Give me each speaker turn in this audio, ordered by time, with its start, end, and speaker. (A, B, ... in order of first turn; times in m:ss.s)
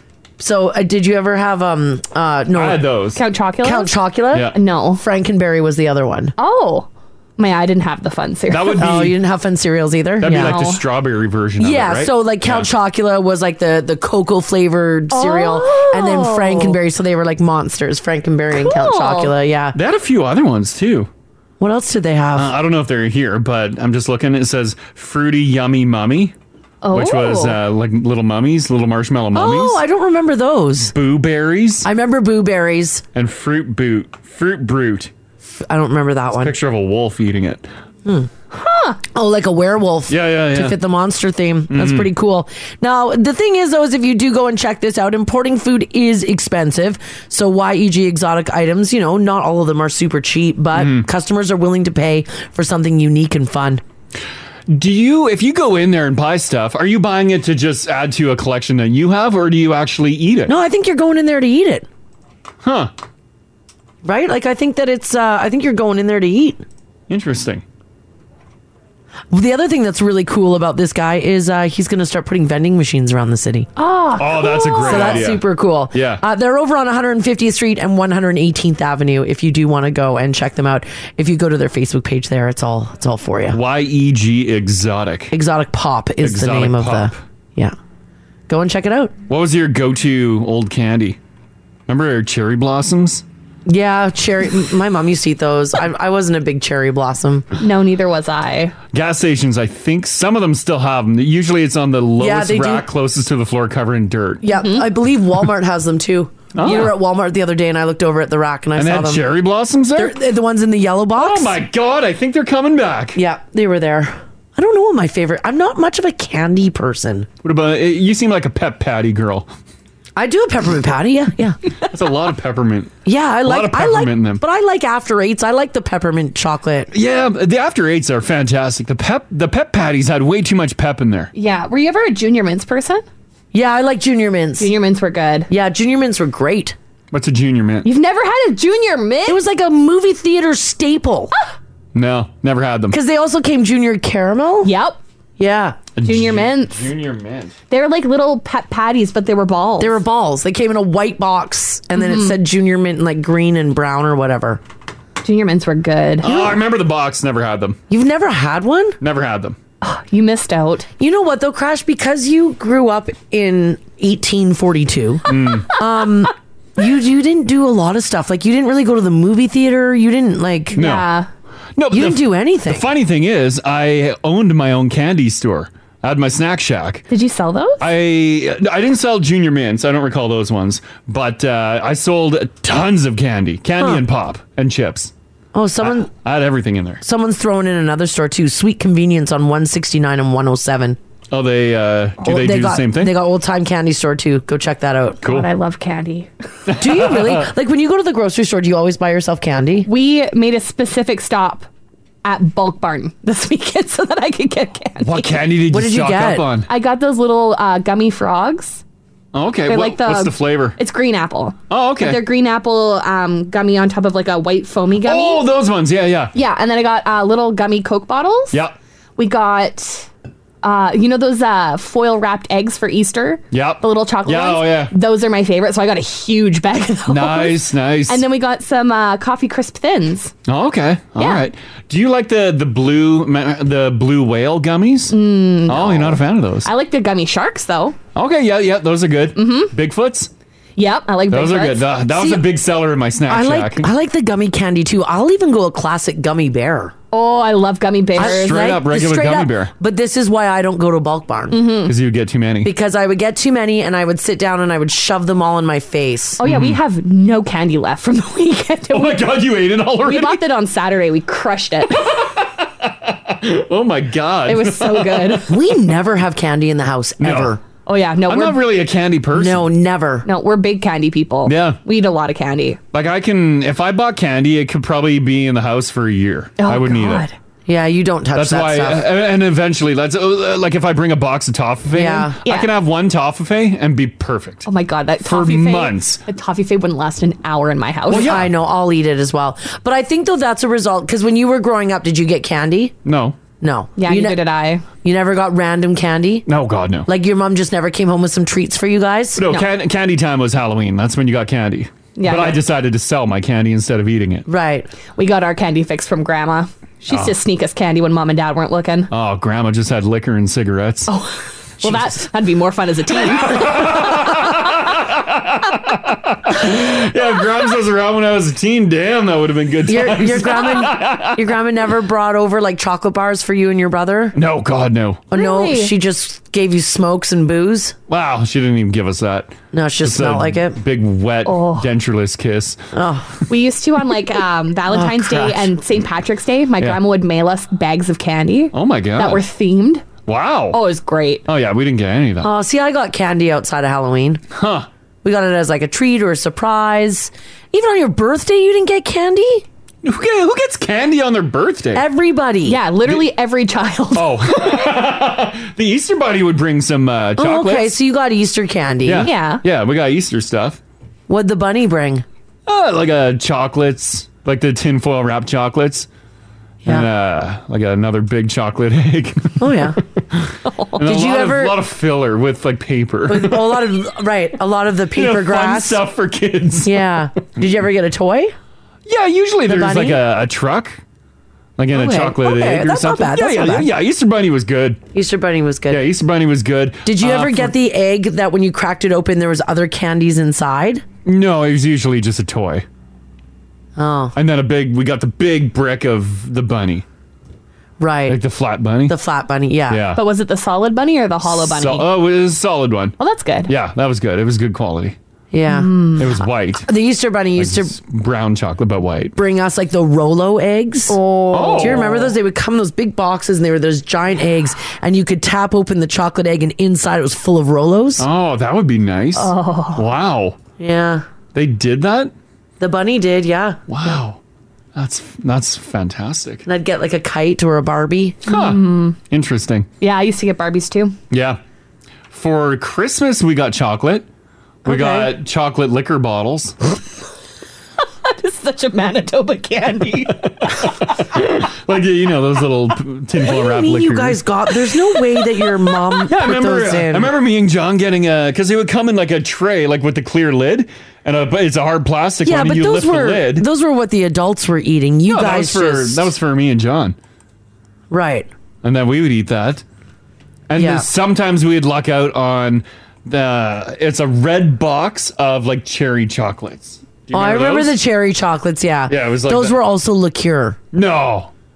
0:00.4-0:02.8 A
0:02.5-0:03.2 B
0:03.2-0:03.9 C
0:03.6-0:06.3 A
0:04.5-0:05.0 C
0:06.4-0:08.8 C
0:08.5-0:09.2 B
0:08.8-0:10.6 A
0:10.2-0:12.7 B
0:10.3-0:10.8 C
0:11.6-0:19.8 A
0:15.1-0:16.8 C
0:18.5-0:19.3 C
0:19.7-0:21.1 B
0:21.6-0:22.5 A
0:22.4-0:26.3 B
0:26.8-0:27.6 C
0:26.9-0:29.8 B
0:29.3-0:31.0 A
0:30.9-0:31.9 B
0:31.8-0:33.0 A
0:33.2-0:35.1 B
0:35.6-0:36.6 A
0:36.4-0:37.7 B
0:38.0-0:38.3 A
0:38.5-0:39.0 C
0:39.1-0:53.8 A
0:40.1-0:40.8 B
0:41.7-0:42.1 B
0:50.8-0:51.1 B
0:54.7-1:00.5 B
1:00.5-1:01.9 A
1:02.6-1:02.9 B
1:04.0-1:06.6 A
1:07.1-1:07.6 B
1:09.3-1:13.7 A
1:13.8-1:15.3 C
1:14.2-1:16.2 B
1:14.8-1:23.6 A
1:23.5-1:25.3 B
1:25.3-1:27.8 A
1:26.2-1:27.2 B
1:28.5-1:29.2 A
1:29.3-1:31.2 B
1:31.9-1:33.2 B
1:33.7-1:37.5 A
1:37.6-1:38.8 C
1:38.9-1:44.4 B
1:42.2-1:42.9 A
1:44.4-1:49.3 A
1:44.5-1:44.9 C
1:46.5-1:47.0 B
1:48.8-1:50.2 B
1:50.0-1:51.6 A
1:51.2-1:53.2 B
1:53.2-1:57.3 A
1:57.4-1:59.5 B
2:00.2-2:01.6 A
2:01.8-2:04.4 B
2:03.0-2:06.9 A
2:06.9-2:11.3 B
2:11.3-2:13.0 C
2:13.5-2:14.7 A
2:14.6-2:15.5 C
2:15.5-2:16.8 A
2:17.1-2:17.9 B
2:17.8-2:19.4 C
2:19.3-2:21.3 A
2:21.9-2:23.0 B
2:22.9-2:24.7 A
2:24.6-2:25.0 C
2:25.4-2:25.8 A
2:26.0-2:27.6 B
2:26.0-2:26.8 C
2:27.7-2:30.0 C
2:29.8-2:34.6 A
2:32.0-2:32.4 C
2:35.2-2:36.4 C
2:36.2-2:37.8 B
2:37.9-2:39.0 A
2:39.0-2:39.6 B
2:39.8-2:40.9 C
2:41.0-2:50.8 A
2:45.3-2:45.7 B
2:50.7-2:51.3 C
2:50.8-2:51.1 B
2:51.8-2:57.0 B
2:51.9-2:52.9 A
2:57.1-2:57.9 C
2:57.8-3:05.1 B
3:05.5-3:06.1 A
3:05.8-3:07.0 B
3:07.0-3:11.0 A
3:11.3-3:13.2 B
3:12.2-3:15.2 A
3:15.2-3:16.3 C
3:15.2-3:15.5 B
3:16.7-3:17.5 B
3:16.8-3:19.9 A
3:19.8-3:21.7 C
3:22.2-3:25.4 C
3:25.0-3:26.7 B
3:25.7-3:26.5 A
3:26.7-3:28.8 C
3:29.3-3:30.8 B
3:29.7-3:35.4 C
3:31.7-3:32.2 B
3:35.0-3:36.3 B
3:36.3-3:38.6 C
3:39.2-3:40.1 C
3:40.6-3:50.3 C
3:43.5-3:44.9 B
3:47.1-3:48.2 B
3:50.5-3:56.7 B
3:51.2-3:51.4 C
3:55.1-3:58.0 C
3:58.2-4:00.3 B
3:59.4-3:59.7 C
4:00.8-4:01.9 C
4:01.3-4:03.9 B
4:02.1-4:02.4 A
4:03.3-4:06.9 A
4:07.1-4:08.6 C
4:08.2-4:11.6 A
4:08.2-4:09.7 B
4:11.5-4:11.9 C
4:11.8-4:12.7 B
4:12.6-4:16.4 A
4:16.4-4:19.3 C
4:16.4-4:16.8 B
4:18.9-4:20.4 B
4:20.0-4:22.1 C
4:22.1-4:25.4 B
4:24.5-4:25.5 C
4:25.5-4:27.6 A
4:27.2-4:27.6 B
4:27.9-4:28.6 C
4:28.3-4:29.7 B
4:29.3-4:30.3 A
4:30.2-4:32.8 C
4:31.5-4:31.8 B
4:32.9-4:37.2 B
4:36.6-4:37.3 C
4:37.7-4:39.1 A
4:38.3-4:44.7 B
4:41.9-4:42.4 A
4:42.4-4:42.7 C
4:44.7-4:48.3 C
4:45.2-4:46.2 B
4:48.1-4:48.5 B
4:48.1-4:53.0 A
4:53.0-4:53.4 B
4:53.6-4:54.4 A
4:54.0-4:54.8 C
4:55.0-4:56.5 A
4:56.5-4:57.1 B
4:57.1-4:59.4 A
4:59.4-5:04.5 B
5:02.2-5:02.6 C
5:04.5-5:04.9 A
5:05.2-5:09.1 C
5:07.1-5:07.4 B
5:09.1-5:11.1 B
5:11.1-5:14.1 C
5:11.8-5:12.1 B
5:13.2-5:21.5 B
5:19.9-5:24.4 A
5:24.3-5:25.2 B
5:25.3-5:28.0 A
5:25.3-5:25.9 C
5:28.1-5:32.8 B
5:29.7-5:30.8 A
5:31.4-5:31.9 C
5:32.9-5:33.4 A
5:33.5-5:40.1 C
5:34.9-5:35.7 A
5:38.7-5:39.4 B
5:40.3-5:40.8 B
5:40.7-5:41.4 C
5:41.5-5:42.5 B
5:42.4-5:44.4 A
5:44.5-5:44.9 B
5:45.2-5:49.6 A
5:50.0-5:52.0 B
5:51.9-5:52.8 A
5:52.7-5:54.9 C
5:54.1-5:57.9 B
5:57.4-5:59.3 A
5:59.0-6:00.8 B
5:59.2-5:59.6 C
6:01.3-6:02.2 A
6:02.7-6:06.1 B
6:06.9-6:13.9 B
6:09.6-6:10.0 A
6:10.6-6:11.0 C
6:11.0-6:11.8 A
6:13.3-6:16.0 A
6:15.1-6:17.1 B
6:16.8-6:18.6 A
6:19.1-6:21.0 B
6:19.7-6:20.2 A
6:21.8-6:25.0 B
6:21.9-6:23.9 A
6:25.1-6:26.1 A
6:25.9-6:27.7 B
6:27.0-6:31.0 A
6:31.2-6:32.8 B
6:34.0-6:34.4 A
6:34.3-6:37.0 B
6:38.0-6:38.4 A
6:38.3-6:39.2 B
6:39.1-6:40.0 A
6:39.9-6:40.2 B
6:40.2-6:42.1 C
6:41.4-6:43.2 B
6:43.2-6:43.7 C
6:43.7-6:45.2 B
6:45.5-6:46.3 A
6:45.7-6:46.3 C
6:46.2-6:46.9 B
6:46.8-6:48.0 A
6:47.6-6:49.4 B
6:49.4-6:51.2 A
6:51.1-6:52.3 C
6:51.5-6:52.2 B
6:51.8-6:58.3 A
6:58.2-7:00.6 B
6:59.4-7:00.0 C
7:00.8-7:01.3 A
7:01.5-7:02.3 B
7:02.8-7:04.1 A
7:03.9-7:04.4 B
7:05.0-7:06.6 B
7:06.6-7:08.4 A
7:08.5-7:09.9 B
7:08.5-7:09.2 C
7:10.0-7:11.2 C
7:11.3-7:11.6 B
7:12.3-7:14.3 B
7:14.8-7:15.3 A
7:14.8-7:16.8 B
7:18.2-7:20.9 C
7:20.4-7:24.4 B
7:23.4-7:27.3 A
7:26.3-7:33.7 B
7:32.4-7:36.3 A
7:35.3-7:37.2 B
7:38.1-7:38.5 A
7:38.8-7:39.8 B
7:40.7-7:48.0 B
7:40.8-7:41.1 A
7:47.3-7:50.8 A
7:49.1-7:49.8 B
7:50.9-7:51.5 B